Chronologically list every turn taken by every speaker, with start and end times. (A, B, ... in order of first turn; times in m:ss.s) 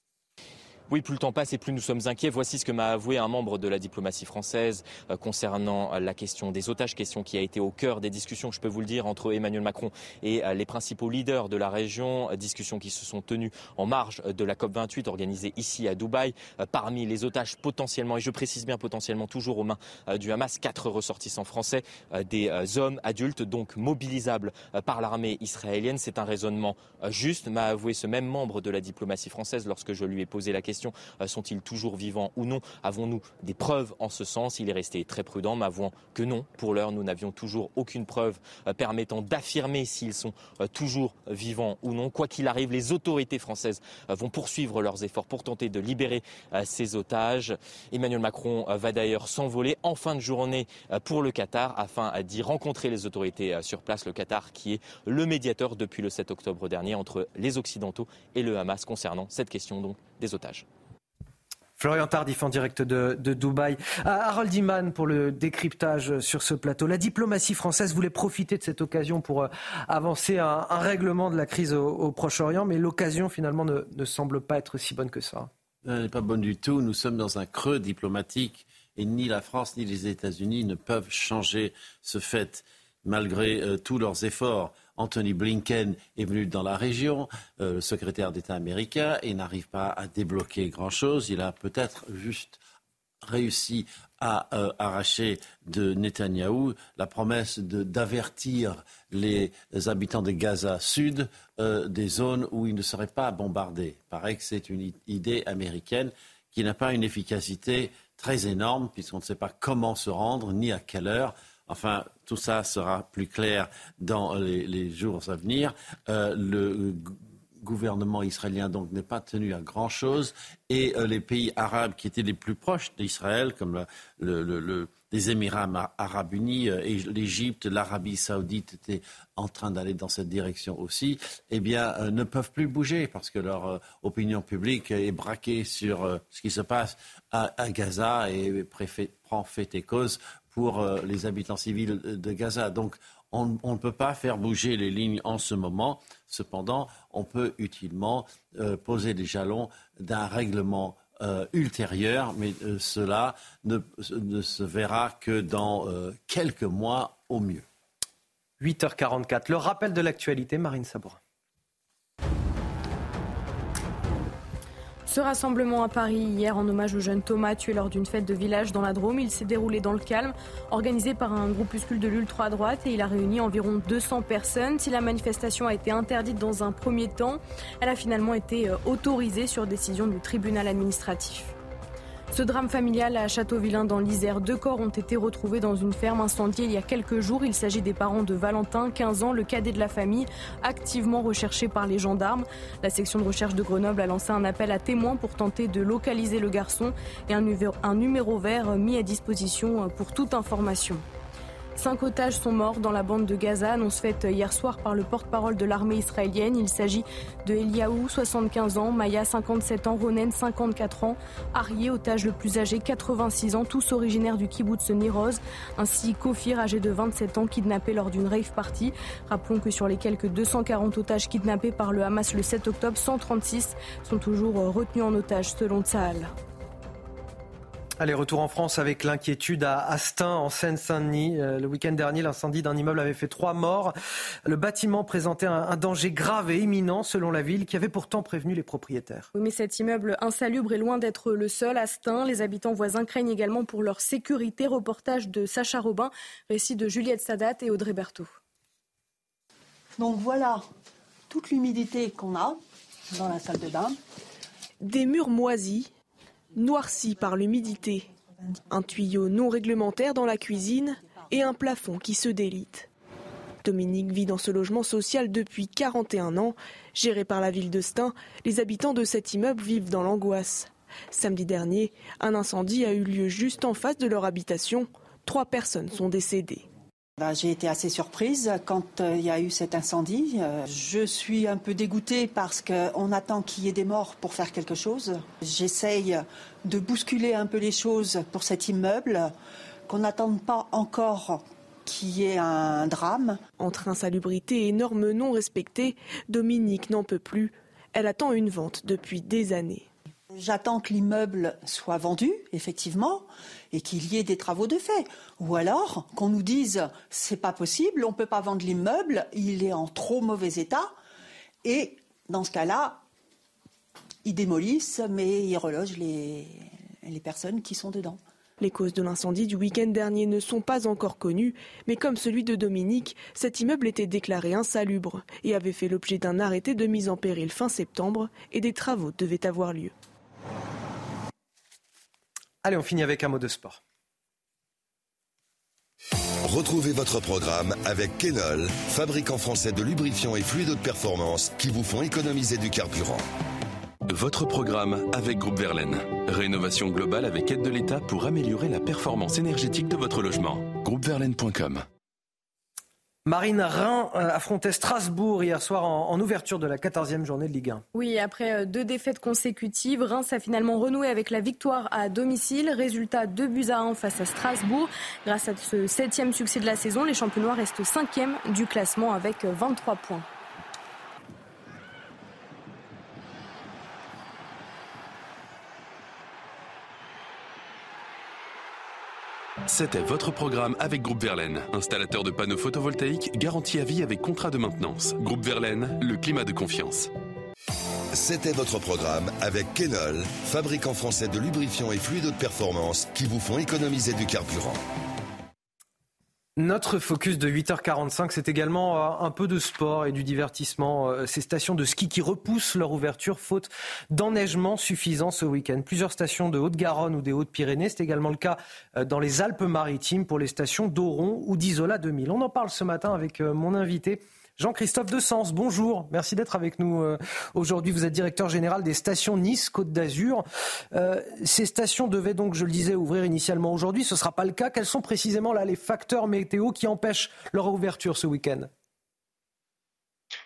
0:00.9-1:00.6 A
1:01.8-1:15.5 B
1:15.8-1:32.6 C
1:33.2-2:37.6 C
2:38.6-2:41.2 B
2:45.1-3:01.5 D
3:02.3-3:21.0 D
3:21.8-3:46.3 D
3:48.0-3:53.9 B
3:54.4-3:59.3 B
3:59.3-4:08.3 D
4:10.0-4:10.7 E
4:11.3-4:14.0 E
4:14.8-4:15.9 F
4:16.5-4:18.1 F
4:18.7-4:22.9 F
4:23.6-4:36.7 F
4:37.2-4:49.3 E
4:49.9-4:53.4 E
4:53.6-4:59.9 F
5:00.3-5:10.9 E
5:11.6-5:13.0 E
5:14.2-5:18.2 E
5:18.6-5:29.9 F
5:32.6-5:33.8 B
5:36.4-5:43.2 G
5:44.1-5:51.8 H
5:53.2-5:57.8 B
5:57.9-6:10.2 D
6:19.6-6:27.1 H
6:28.1-6:34.8 G
6:36.6-7:08.7 B